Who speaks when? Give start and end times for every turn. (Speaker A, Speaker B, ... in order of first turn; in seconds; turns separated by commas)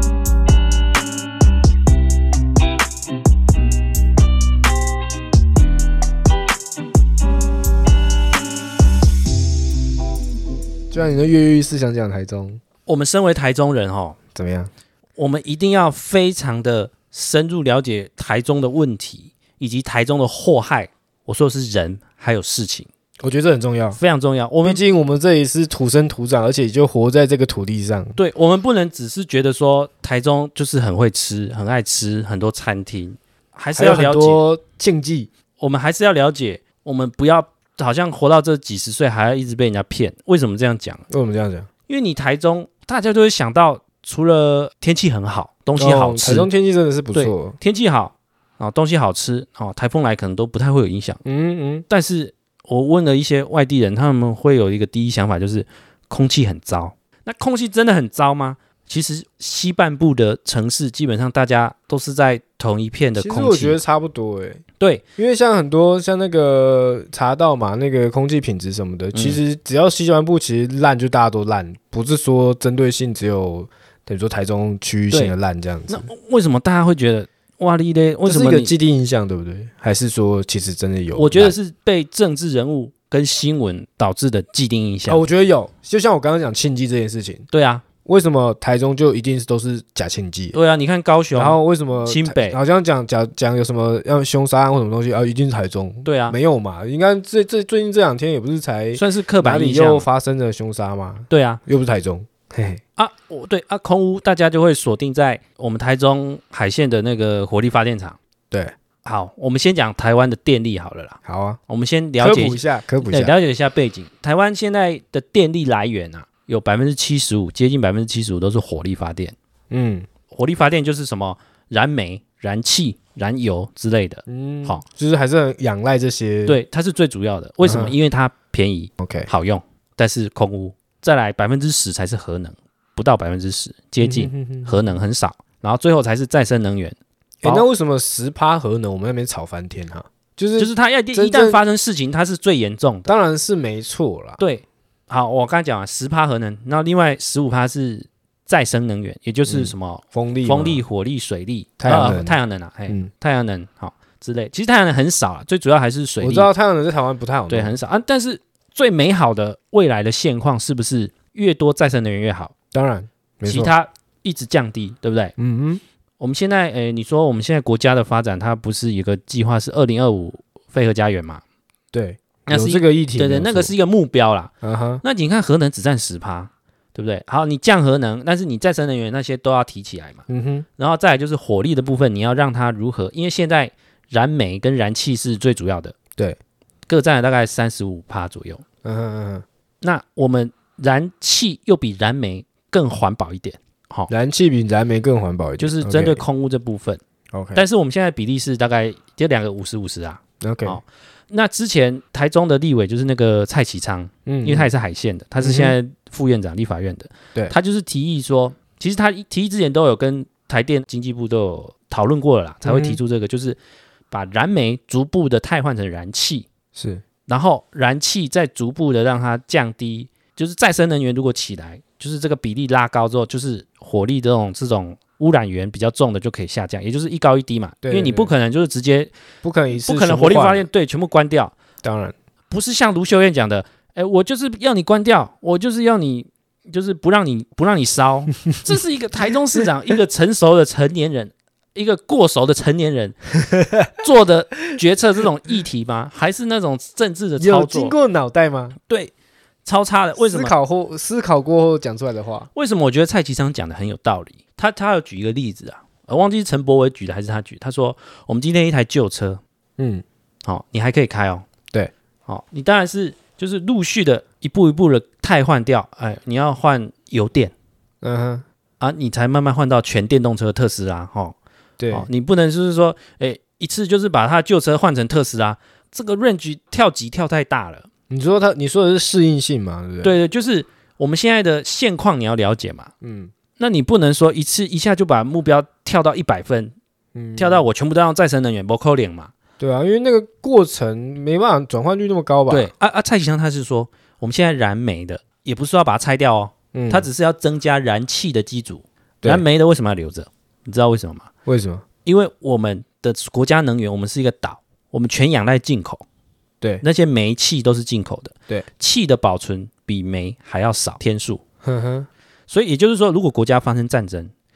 Speaker A: 10.9-12.6, Speaker B: 12.8-14.2, Speaker A: 14.3-14.7, Speaker B: 15.2-22.9, Speaker A: 23.2-24.0, Speaker B: 23.9-24.8, Speaker A: 24.6-28.2, Speaker B: 28.1-34.4, Speaker A: 33.7-35.3, Speaker B: 35.6-41.0, Speaker A: 41.1-41.7, Speaker B: 41.9-46.5, Speaker A: 45.8-47.5, Speaker B: 47.1-51.2, Speaker A: 51.2-51.9, Speaker B: 51.9-63.8, Speaker A: 63.1-64.6, Speaker A: 65.2-76.1, Speaker B: 69.1-69.4, Speaker B: 75.9-78.7, Speaker A: 78.2-81.5, Speaker B: 81.1-85.2, Speaker A: 85.1-87.5, Speaker B: 87.5-87.8, Speaker A: 88.0-90.5, Speaker B: 90.5-92.6, Speaker A: 91.3-102.8, Speaker B: 96.0-96.4, Speaker B: 98.9-100.1, Speaker B: 101.3-101.6, Speaker B: 103.0-108.2, Speaker B: 109.0-119.3, Speaker A: 111.2-111.6, Speaker A: 112.2-113.3, Speaker A: 119.7-120.0, Speaker B: 120.3-124.8, Speaker A: 124.3-126.6, Speaker B: 126.5-137.7, Speaker A: 127.6-127.9, Speaker A: 129.0-129.3, Speaker A: 134.0-134.8, Speaker A: 137.4-141.6, Speaker B: 140.6-143.1, Speaker A: 143.1-144.4, Speaker B: 144.4-156.5, Speaker A: 149.4-150.8, Speaker A: 151.8-152.4, Speaker A: 156.2-157.7, Speaker B: 157.5-162.5, Speaker A: 162.7-163.7, Speaker B: 163.4-165.3, Speaker A: 165.4-165.8, Speaker B: 166.2-171.4, Speaker A: 171.9-173.7, Speaker B: 172.5-174.5, Speaker A: 174.6-175.0, Speaker B: 175.0-180.2, Speaker A: 180.3-180.7, Speaker B: 180.8-185.9, Speaker B: 186.9-188.6, Speaker A: 188.8-189.4, Speaker B: 189.8-194.1, Speaker A: 194.1-196.2, Speaker B: 195.6-197.0, Speaker A: 197.3-197.6, Speaker B: 197.5-213.6, Speaker A: 200.4-200.8, Speaker A: 204.2-204.7, Speaker A: 205.4-205.7, Speaker A: 212.6-213.0, Speaker B: 214.1-216.5, Speaker A: 216.7-217.0, Speaker B: 217.2-229.1, Speaker A: 227.8-228.3, Speaker A: 229.4-230.7, Speaker B: 229.7-231.5, Speaker A: 231.8-232.1, Speaker B: 232.5-243.3, Speaker A: 243.6-243.8, Speaker B: 244.0-247.9, Speaker A: 247.4-248.8, Speaker B: 248.9-249.1, Speaker B: 249.6-250.5, Speaker A: 250.2-252.5, Speaker B: 252.5-259.4, Speaker A: 259.8-260.0, Speaker B: 260.4-261.4, Speaker B: 262.3-267.5, Speaker A: 268.0-268.4, Speaker B: 268.8-271.4, Speaker A: 271.8-272.1, Speaker B: 271.9-277.9, Speaker A: 278.1-280.1, Speaker B: 280.0-282.9, Speaker A: 283.0-283.3, Speaker B: 283.6-286.7, Speaker A: 287.1-287.6, Speaker B: 287.4-289.3, Speaker A: 289.6-292.7, Speaker B: 292.5-301.2, Speaker A: 296.7-297.1, Speaker A: 301.4-301.8, Speaker B: 302.0-306.0, Speaker B: 306.8-311.4, Speaker A: 311.6-312.1, Speaker B: 312.5-314.3